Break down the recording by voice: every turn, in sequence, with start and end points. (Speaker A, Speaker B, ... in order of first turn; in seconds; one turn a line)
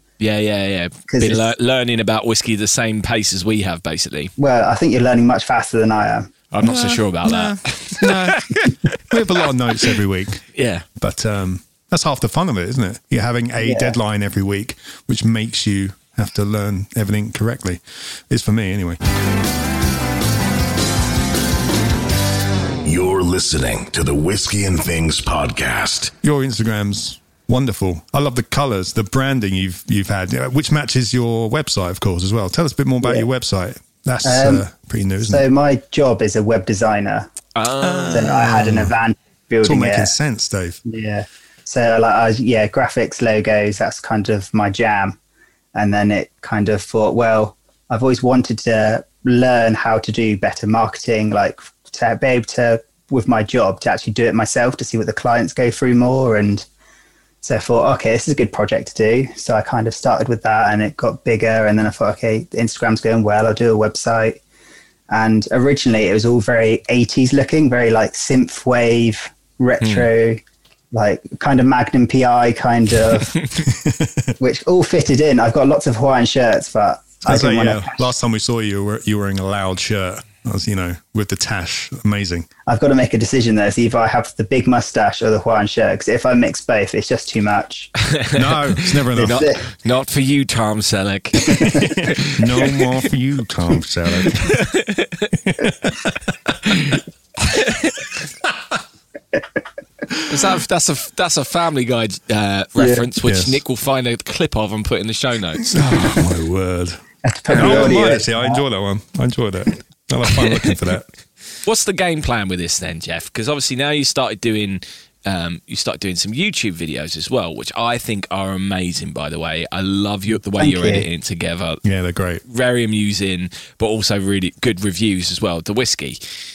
Speaker A: 0.2-4.3
Speaker B: 1.1-1.4
Speaker B: 4.4-6.3
Speaker A: 6.5-9.2
Speaker C: 6.6-10.4
Speaker A: 10.5-10.8
Speaker C: 11.0-19.0
Speaker B: 13.6-13.9
Speaker D: 22.8-26.1
Speaker C: 26.2-35.4
Speaker B: 34.2-34.6
Speaker B: 35.2-37.3
Speaker A: 37.5-38.4
Speaker C: 37.8-38.9
Speaker B: 38.1-40.1
Speaker C: 39.6-40.8
Speaker B: 40.8-45.2
Speaker B: 45.7-56.6
Speaker B: 57.4-64.4
Speaker B: 65.1-70.4
Speaker B: 70.9-73.4
Speaker C: 73.7-74.3
Speaker B: 74.4-78.1
Speaker C: 77.2-82.5
Speaker B: 82.7-87.9
Speaker A: 88.1-92.8
Speaker C: 88.3-89.5
Speaker B: 89.2-89.6
Speaker B: 91.4-91.9
Speaker C: 91.8-94.6
Speaker A: 94.3-95.3
Speaker C: 95.4-96.3
Speaker A: 96.7-98.1
Speaker A: 100.3-105.8
Speaker B: 102.8-103.0
Speaker C: 103.2-103.6
Speaker C: 105.7-111.1
Speaker B: 107.2-108.6
Speaker A: 111.6-121.8
Speaker B: 120.6-121.0
Speaker C: 121.8-122.4
Speaker A: 122.5-126.2